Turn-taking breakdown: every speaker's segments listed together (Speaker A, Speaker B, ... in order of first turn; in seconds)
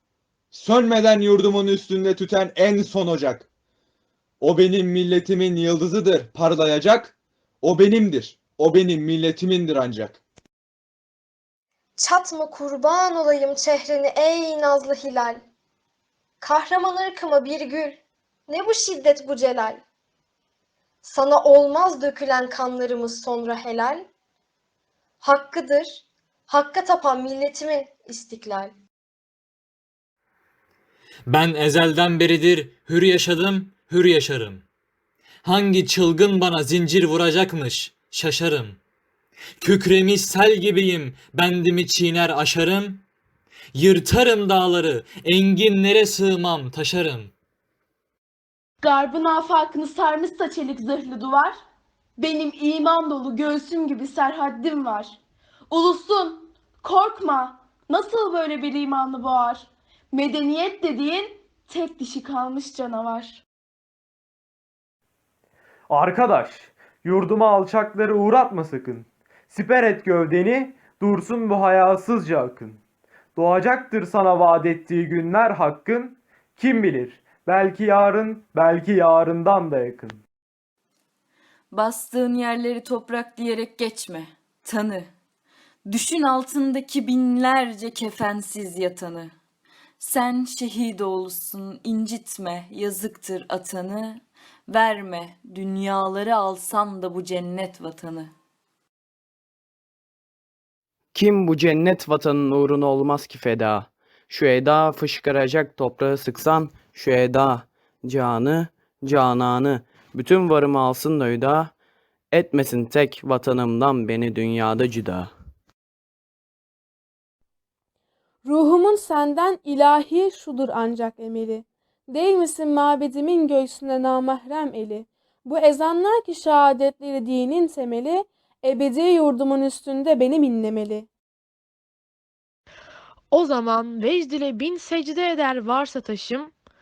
Speaker A: 0.5-3.5, 4.4-10.2
Speaker B: 12.0-15.4, 16.4-19.8, 21.0-24.1, 25.2-28.7
Speaker C: 31.3-34.6, 35.4-38.8, 39.6-43.0, 43.7-47.3
Speaker D: 48.8-51.6, 52.2-55.2, 55.7-63.4
Speaker E: 65.9-72.8, 73.4-80.2
Speaker F: 81.7-85.1, 85.8-89.3, 90.0-98.3
Speaker G: 101.1-111.7, 112.3-115.3
Speaker H: 118.4-131.1
Speaker I: 133.3-136.5